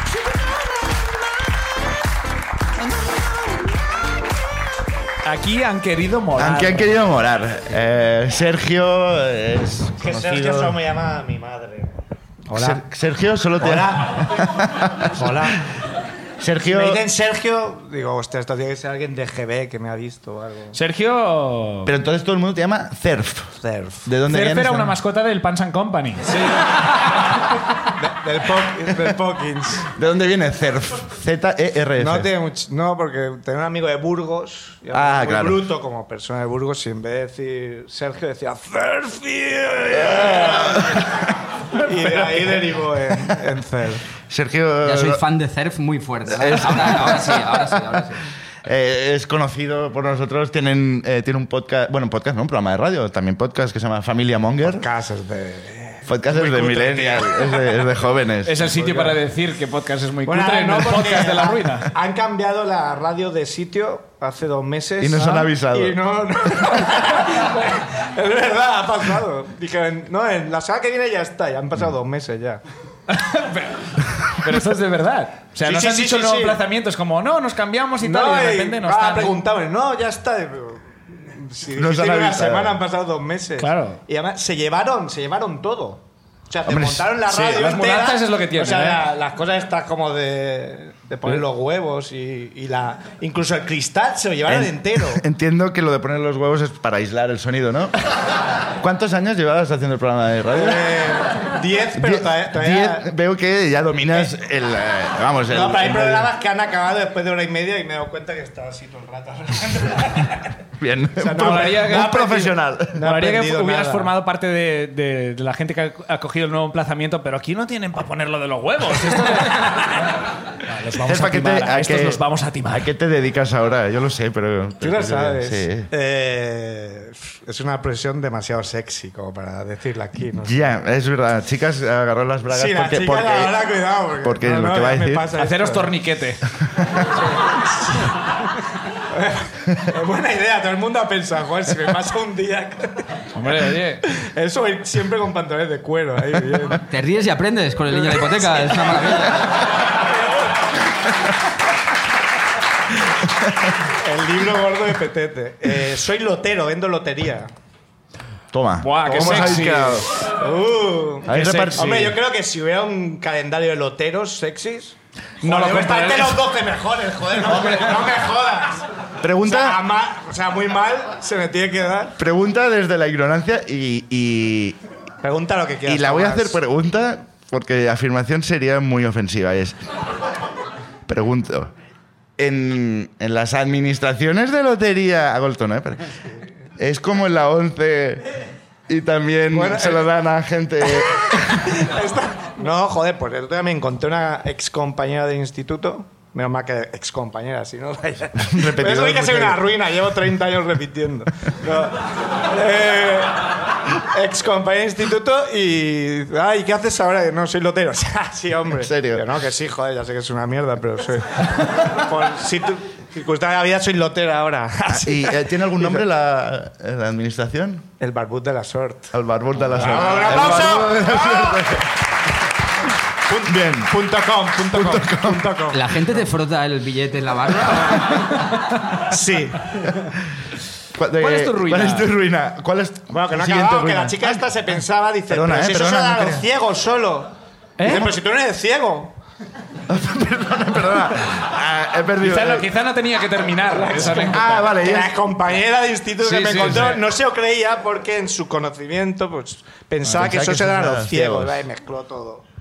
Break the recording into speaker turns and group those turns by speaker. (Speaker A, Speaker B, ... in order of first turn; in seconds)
Speaker A: 5.2-7.0, 20.7-21.9, 24.3-26.4, 58.5-61.9, 65.2-65.5, 73.1-79.4, 83.6-84.0, 87.3-89.0, 111.3-112.2, 113.0-122.9, 135.3-136.4, 143.3-144.0, 158.8-160.1, 161.3-162.1, 165.4-166.5, 167.4-167.9, 219.9-220.5, 231.2-232.1, 237.8-238.1, 242.2-244.7, 246.2-247.0
Speaker B: 6.4-10.8, 12.5-15.3, 16.4-17.0, 21.9-23.5, 24.1-24.9, 30.0-32.3, 34.9-35.7, 40.0-41.0, 44.3-45.2, 46.3-48.0, 48.6-54.9, 56.1-58.7, 65.0-66.0, 81.8-82.8, 86.7-87.1, 94.5-97.9, 98.8-101.0, 102.0-106.3, 110.8-113.0, 121.0-125.9, 130.4-133.6, 134.2-135.3, 158.5-160.1, 161.3-162.1, 169.2-169.8, 172.2-174.8, 175.9-179.8, 181.1-181.7, 182.4-186.2, 186.8-188.3, 188.9-191.8, 198.4-199.6, 208.8-209.3, 214.9-217.9, 219.1-221.9, 223.5-223.9, 224.7-225.6, 231.0-234.4, 235.3-236.4, 239.9-242.7, 244.1-245.1, 250.1-251.6
Speaker C: 10.0-12.0, 12.5-12.8, 13.6-14.4, 15.1-15.6, 16.6-20.8, 23.6-24.1, 26.3-26.6, 28.0-29.9, 32.0-41.1, 41.7-44.0, 54.6-57.6, 58.8-59.1, 60.2-72.6, 75.6-76.6, 78.0-95.2, 100.5-103.1, 105.5-110.5, 111.2-114.1, 124.8-130.6, 132.5-135.9, 137.2-138.2, 139.1-143.0, 144.0-146.8, 148.1-149.1, 153.9-157.5, 159.2-159.7, 160.4-168.9, 169.4-172.2, 175.2-176.6, 189.5-190.1, 190.9-216.0, 218.0-219.1, 219.7-221.8, 223.3-226.0, 229.0-229.6, 233.1-239.2, 243.7-252.4
Speaker D: 44.8-48.2, 146.8-149.5, 225.7-228.2